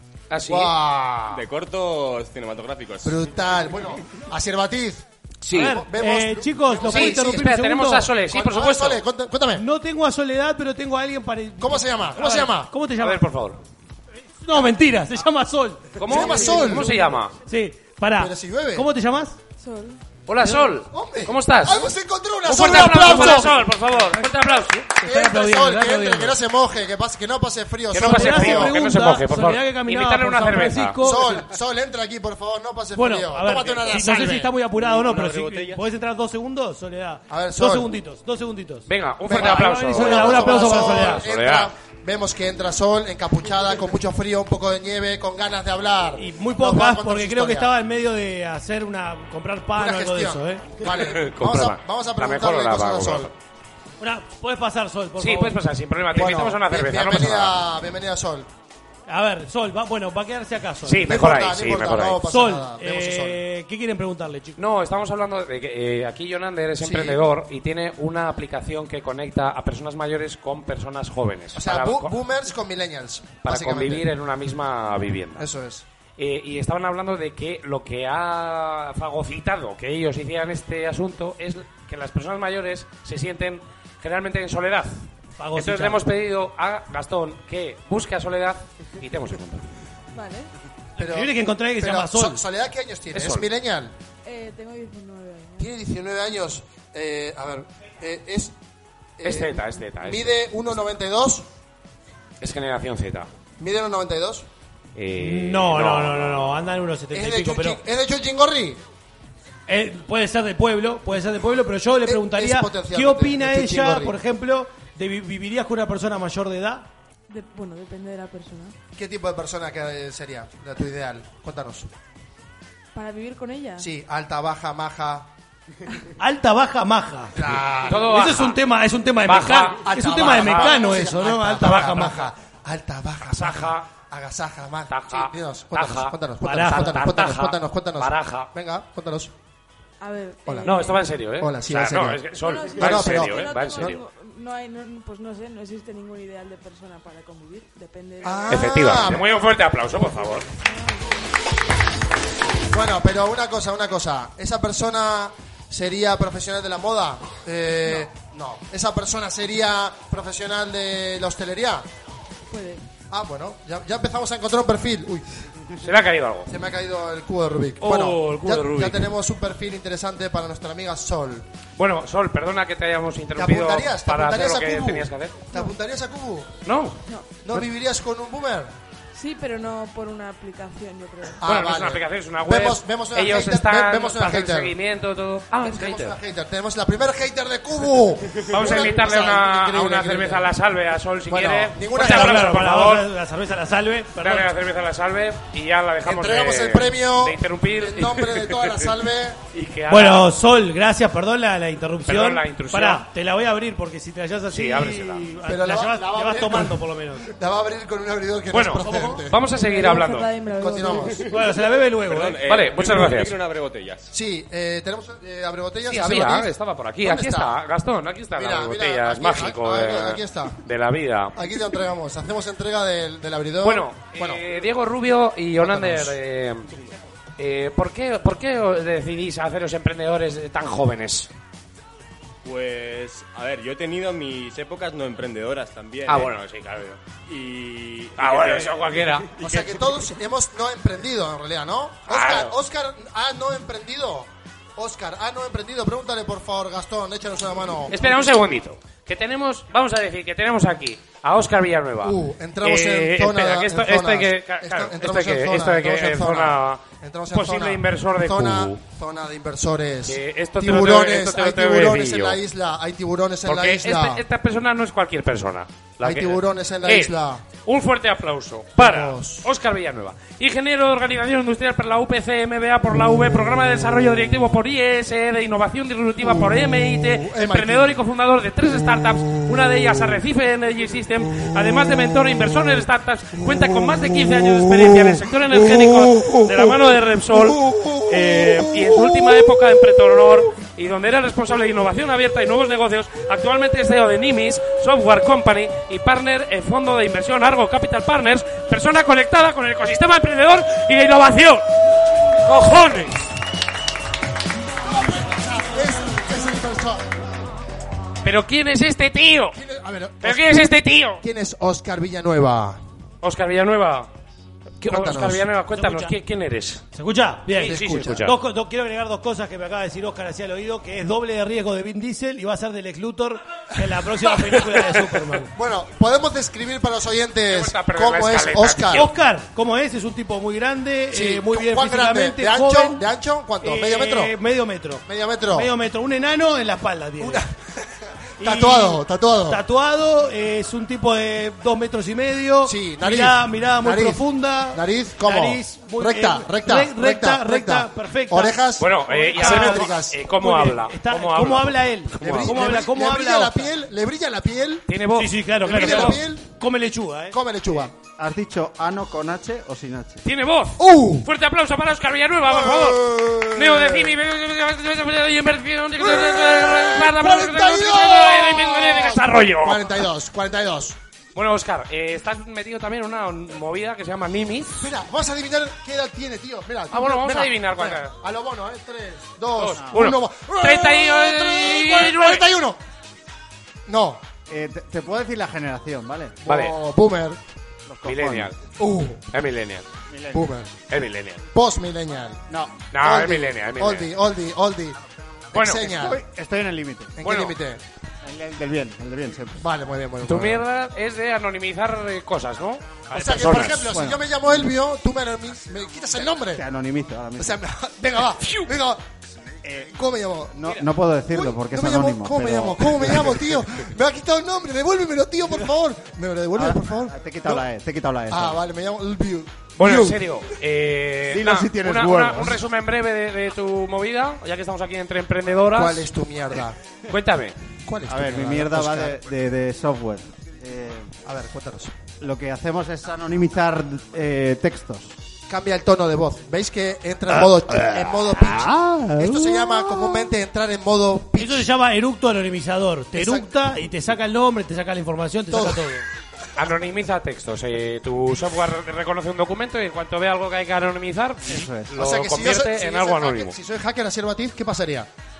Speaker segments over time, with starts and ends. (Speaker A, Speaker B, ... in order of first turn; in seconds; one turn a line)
Speaker A: 0.3-0.8
Speaker B: 0.5-1.4
Speaker C: 1.3-3.2
Speaker B: 3.0-7.5
Speaker A: 5.4-5.8
Speaker D: 5.5-8.1
Speaker A: 6.8-9.0
Speaker B: 8.2-9.7
Speaker D: 9.6-13.2
Speaker B: 11.6-12.7
Speaker A: 13.0-13.6
Speaker D: 14.4-16.8
Speaker A: 16.0-17.4
Speaker B: 16.1-16.9
Speaker D: 17.5-19.4
Speaker B: 18.2-18.9
Speaker E: 19.6-20.0
Speaker A: 20.3-21.9
Speaker D: 20.4-20.8
Speaker B: 20.9-23.5
Speaker A: 22.4-24.9
Speaker D: 22.7-23.5
Speaker D: 24.9-26.4
Speaker B: 25.0-28.8
Speaker A: 27.9-31.0
Speaker D: 28.0-31.3
Speaker B: 31.0-34.5
Speaker D: 33.0-41.2
Speaker C: 34.8-35.8
Speaker B: 37.3-38.0
Speaker A: 38.9-41.7
Speaker B: 39.3-47.7
Speaker D: 46.2-50.7
Speaker B: 49.8-53.3
Speaker A: 50.9-53.3
Speaker D: 54.0-55.6
Speaker A: 55.2-57.6
Speaker B: 56.1-58.5
Speaker D: 59.1-61.1
Speaker A: 60.9-62.2
Speaker B: 61.0-63.4
Speaker D: 62.3-64.6
Speaker A: 64.6-72.1
Speaker B: 66.8-67.2
Speaker B: 71.5-74.1
Speaker A: 73.4-75.5
Speaker B: 75.4-75.8
Speaker A: 76.2-85.0
Speaker D: 85.4-86.1
Speaker A: 85.6-89.7
Speaker E: 90.1-90.5
Speaker B: 91.0-93.9
Speaker D: 91.0-92.4
Speaker A: 93.1-93.5
Speaker E: 94.2-95.8
Speaker B: 95.6-98.5
Speaker B: 99.2-101.5
Speaker A: 99.2-100.5
Speaker A: 102.4-103.3
Speaker B: 103.6-104.5
Speaker A: 105.0-106.6
Speaker D: 105.2-107.8
Speaker B: 107.1-108.8
Speaker D: 109.7-116.9
Speaker B: 112.0-114.2
Speaker E: 117.3-118.8
Speaker B: 119.0-121.9
Speaker E: 122.9-123.9
Speaker B: 123.8-125.3
Speaker D: 126.2-127.3
Speaker B: 127.3-128.2
Speaker A: 127.8-128.6
Speaker D: 128.0-132.2
Speaker A: 129.2-130.7
Speaker B: 129.8-139.3
Speaker A: 133.3-133.9
Speaker A: 134.9-138.5
Speaker D: 136.4-136.9
Speaker E: 140.0-141.1
Speaker B: 140.5-140.7
Speaker A: 140.6-144.0
Speaker B: 141.4-142.2
Speaker E: 142.3-149.1
Speaker B: 142.8-144.0
Speaker B: 148.2-149.3
Speaker A: 148.5-150.5
Speaker E: 150.5-151.2
Speaker B: 152.7-161.8
Speaker E: 162.5-162.8
Speaker B: 163.1-165.2
Speaker A: 165.8-166.5
Speaker B: 166.5-171.5
Speaker A: 167.8-169.1
Speaker A: 171.8-175.4
Speaker B: 173.4-176.6
Speaker A: 176.7-177.0
Speaker E: 177.1-177.3
Speaker B: 177.4-178.7
Speaker E: 179.1-181.4
Speaker B: 181.4-184.8
Speaker A: 181.4-186.2
Speaker B: 185.6-190.5
Speaker A: 188.5-193.1
Speaker B: 191.3-192.6
Speaker D: 191.9-194.5
Speaker A: 194.2-198.9
Speaker B: 196.0-199.4
Speaker A: 199.5-200.3
Speaker D: 199.9-207.3
Speaker A: 202.1-203.0
Speaker A: 204.5-205.3
Speaker B: 205.4-209.4
Speaker A: 208.5-210.3
Speaker E: 209.4-211.3
Speaker B: 210.6-211.3
Speaker D: 211.3-212.4
Speaker C: 212.0-214.1
Speaker A: 212.4-213.3
Speaker B: 214.1-217.6
Speaker A: 215.9-221.4
Speaker B: 218.4-220.6
Speaker B: 221.3-224.4
Speaker A: 223.6-226.7
Speaker B: 225.6-226.2
Speaker A: 227.4-231.3
Speaker C: 232.4-236.3
Speaker A: 236.1-237.0
Speaker C: 237.3-239.6
Speaker A: 238.2-239.3
Speaker B: 239.4-248.2
Speaker A: 242.1-242.6
Speaker A: 247.9-258.8
Speaker B: 252.0-264.2
Speaker A: 260.1-262.4
Speaker A: 263.4-301.7
Speaker B: 266.0-267.4
Speaker B: 268.8-269.5
Speaker B: 276.2-278.0
Speaker B: 284.8-286.7
Speaker B: 287.3-289.0
Speaker A: 302.4-303.3
Speaker B: 305.1-307.1
Speaker A: 308.2-309.6
Speaker B: 309.5-312.8
Speaker A: 310.2-311.2
Speaker A: 313.2-314.1
Speaker A: 314.8-316.8
Speaker B: 314.8-315.5
Speaker D: 315.7-316.1
Speaker D: 316.9-325.5
Speaker A: 317.5-318.4
Speaker B: 317.6-318.3
Speaker B: 325.5-329.1
Speaker A: 327.5-329.1
Speaker D: 328.9-333.0
Speaker B: 331.1-334.3
Speaker D: 333.6-337.4
Speaker B: 335.1-335.7
Speaker B: 337.2-339.6
Speaker D: 338.4-353.7
Speaker B: 342.6-350.2
Speaker A: 348.8-352.8
Speaker B: 352.2-354.9
Speaker A: 354.9-356.2
Speaker D: 355.1-357.4
Speaker B: 355.6-356.5
Speaker B: 357.3-357.9
Speaker F: 358.2-360.2
Speaker A: 360.2-370.0
Speaker B: 360.8-361.3
Speaker B: 362.4-364.2
Speaker B: 366.0-371.0
Speaker A: 371.4-374.9
Speaker B: 374.8-382.8
Speaker A: 376.9-378.1
Speaker A: 379.6-382.5
Speaker B: 383.9-384.2
Speaker F: 384.5-386.4
Speaker B: 386.4-387.4
Speaker A: 386.5-386.8
Speaker F: 387.9-388.5
Speaker A: 388.0-388.6
Speaker B: 388.8-389.2
Speaker A: 389.3-389.9
Speaker F: 390.1-390.5
Speaker B: 390.3-390.7
Speaker A: 390.9-391.4
Speaker B: 391.5-392.4
Speaker A: 392.9-394.1
Speaker B: 392.9-395.0
Speaker B: 395.5-396.2
Speaker A: 395.5-395.8
Speaker F: 395.9-397.2
Speaker B: 397.2-397.8
Speaker A: 397.2-397.6
Speaker F: 398.2-399.6
Speaker B: 399.6-400.6
Speaker A: 400.2-403.9
Speaker B: 403.1-406.6
Speaker F: 403.9-404.2
Speaker F: 406.5-407.6
Speaker B: 407.4-409.0
Speaker A: 408.4-408.7
Speaker F: 409.6-409.9
Speaker B: 409.8-410.8
Speaker F: 410.6-413.3
Speaker B: 411.3-417.7
Speaker F: 416.6-418.6
Speaker B: 418.3-420.2
Speaker A: 419.8-426.1
Speaker F: 421.3-422.6
Speaker B: 425.7-426.8
Speaker A: 427.1-427.6
Speaker B: 427.9-429.2
Speaker F: 428.1-431.1
Speaker B: 431.2-432.0
Speaker F: 432.2-435.1
Speaker B: 435.5-441.7
Speaker F: 437.8-440.2
Speaker D: 441.4-446.1
Speaker B: 443.1-443.5
Speaker B: 445.5-445.9
Speaker A: 446.6-453.6
Speaker F: 451.5-451.9
Speaker B: 451.9-455.1